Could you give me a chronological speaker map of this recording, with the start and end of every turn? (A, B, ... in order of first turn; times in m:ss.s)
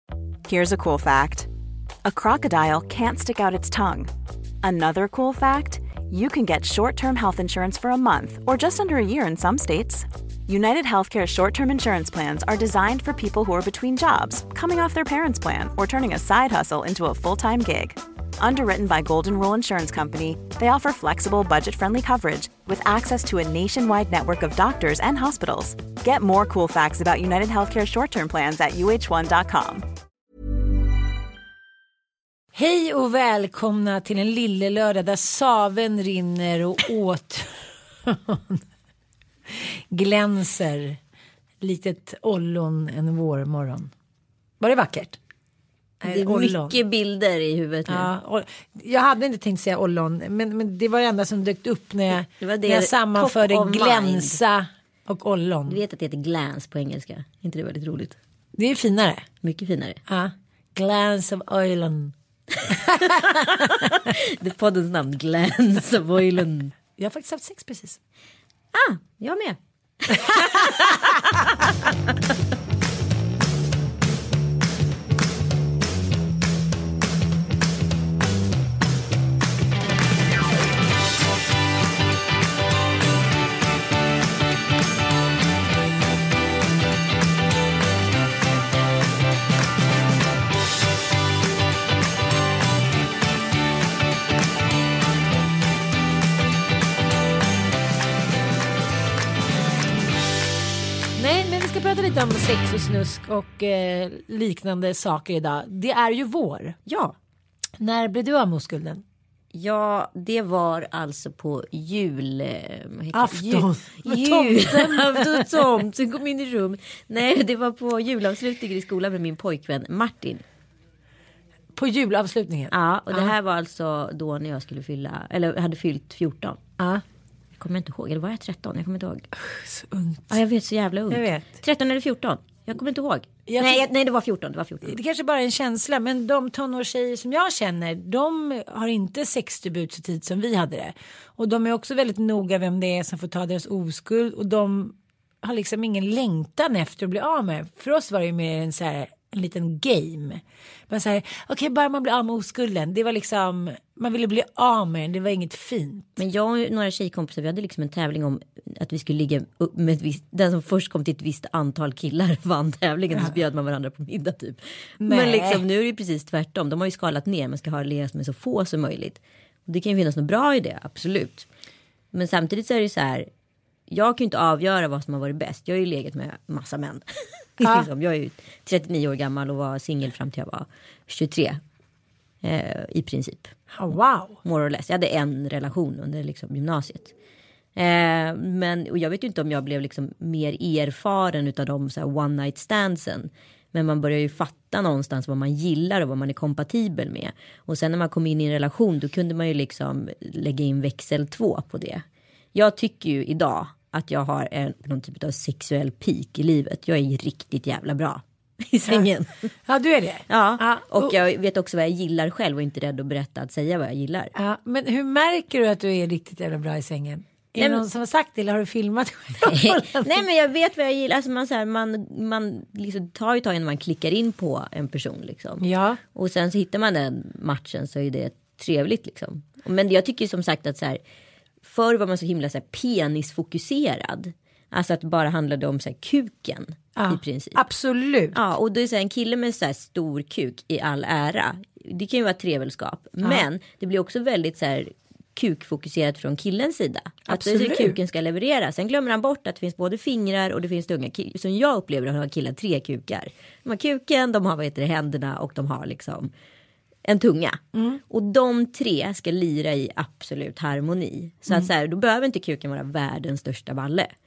0:00.4-0:01.5 A
0:02.0-0:04.1 A
0:04.6-0:29.9 A
0:32.5-0:38.6 B
0:39.5-0:41.0 B
0:41.6-0:43.9 B
0:44.6-0:45.2 B
0:46.0-0:46.8 B
0:46.0-0:48.1 C
0:47.9-0:55.8 B
0:52.4-0:54.4 C
0:55.7-0:58.2 C
0:58.6-0:59.2 B
0:59.4-1:00.0 C
1:00.1-1:02.1 B
1:02.6-1:06.7 C
1:02.7-1:03.9 B
1:07.0-1:08.0 B
1:08.7-1:11.2 C
1:10.3-1:10.6 B
1:41.2-1:46.8 B
1:46.8-1:47.2 C
1:47.8-1:49.0 B
1:49.5-2:00.4 C
1:53.1-1:55.6 B
2:01.7-2:03.3 B
2:02.7-2:06.6 C
2:07.6-2:09.3 C
2:09.4-2:10.4 B
2:10.3-2:14.9 C
2:11.1-2:11.4 B
2:13.5-2:13.9 B
2:14.8-2:36.2 B
2:36.2-2:51.4 C
2:45.0-2:45.6 B
2:52.1-2:53.3 C
2:53.9-2:57.0 C
2:57.6-3:01.6 C
2:57.6-2:57.9 B
3:02.4-3:03.5 C
3:03.7-3:04.4 B
3:04.4-3:07.1 C
3:07.8-3:29.5 C
3:29.6-3:31.2 B
3:30.3-3:34.3 C
3:34.3-3:40.2 B
3:37.6-3:37.8 C
3:39.4-3:51.0 C
3:45.6-3:46.0 B
3:51.6-3:57.6 C
3:57.0-3:58.4 B
3:58.3-4:16.3 C
4:07.3-4:08.0 B
4:17.0-4:24.1 C
4:17.7-4:18.0 B